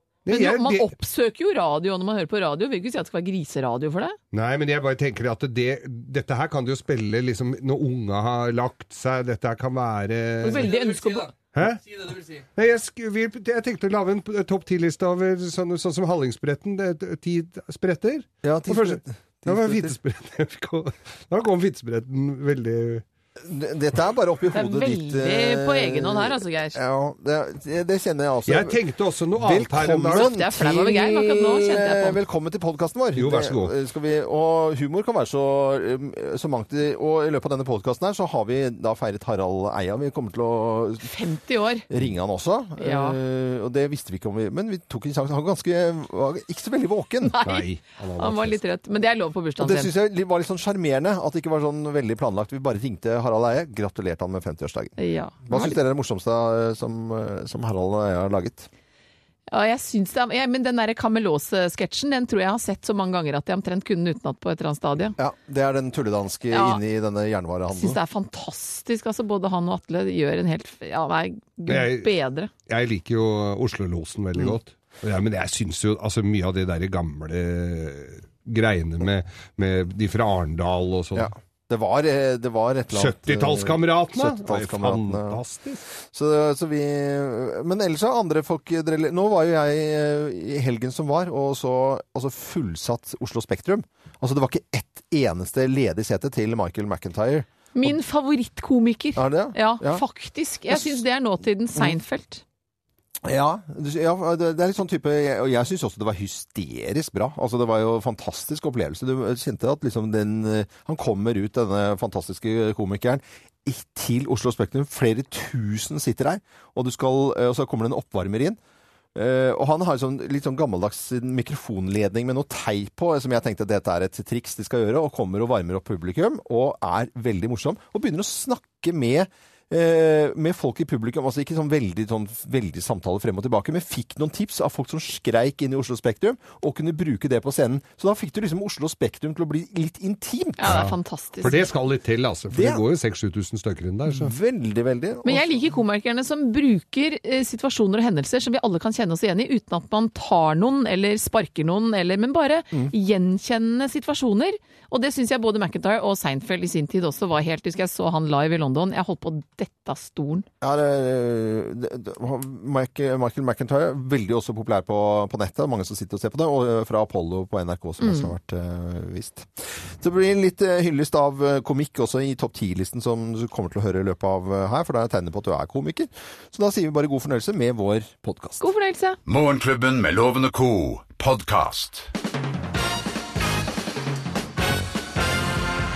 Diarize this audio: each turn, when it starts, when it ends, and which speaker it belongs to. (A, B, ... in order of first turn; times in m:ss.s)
0:00.2-0:00.9 A
0:00.3-0:04.2 B
0:04.3-0:10.7 A
0:10.4-0:11.3 B
0:10.4-0:12.5 C
0:11.5-0:11.8 A
0:12.5-0:23.0 A
0:18.4-0:19.9 D
0:23.4-0:28.8 D
0:24.5-0:26.8 B
0:28.5-0:30.3 A
0:29.4-0:41.1 D
0:30.1-0:32.2 B
0:33.2-0:33.7 A
0:41.0-0:41.8 B
0:41.9-0:47.4 D
0:42.8-0:43.2 B
0:47.2-0:49.9 B
0:47.4-0:48.6 A
0:49.6-0:58.7 D
0:55.0-0:55.8 B
0:59.5-1:05.2 B
1:05.2-1:08.0 D
1:06.5-1:06.8 B
1:07.7-1:12.5 B
1:11.7-1:12.1 A
1:12.6-1:21.3 A
1:21.1-1:25.4 D
1:22.9-1:25.8 A
1:26.1-1:37.4 D
1:37.7-1:42.4 B
1:39.2-1:40.0 D
1:40.7-1:41.0 D
1:43.2-1:58.6 D
1:59.1-2:20.8 D
2:20.6-2:21.6 B
2:20.6-2:24.3 A
2:22.5-2:22.8 D
2:24.1-2:25.5 D
2:25.2-2:40.4 B
2:40.6-2:49.5 D
2:48.0-2:48.3 B
2:50.0-2:58.6 D
2:58.6-2:59.2 B
2:59.2-3:02.1 E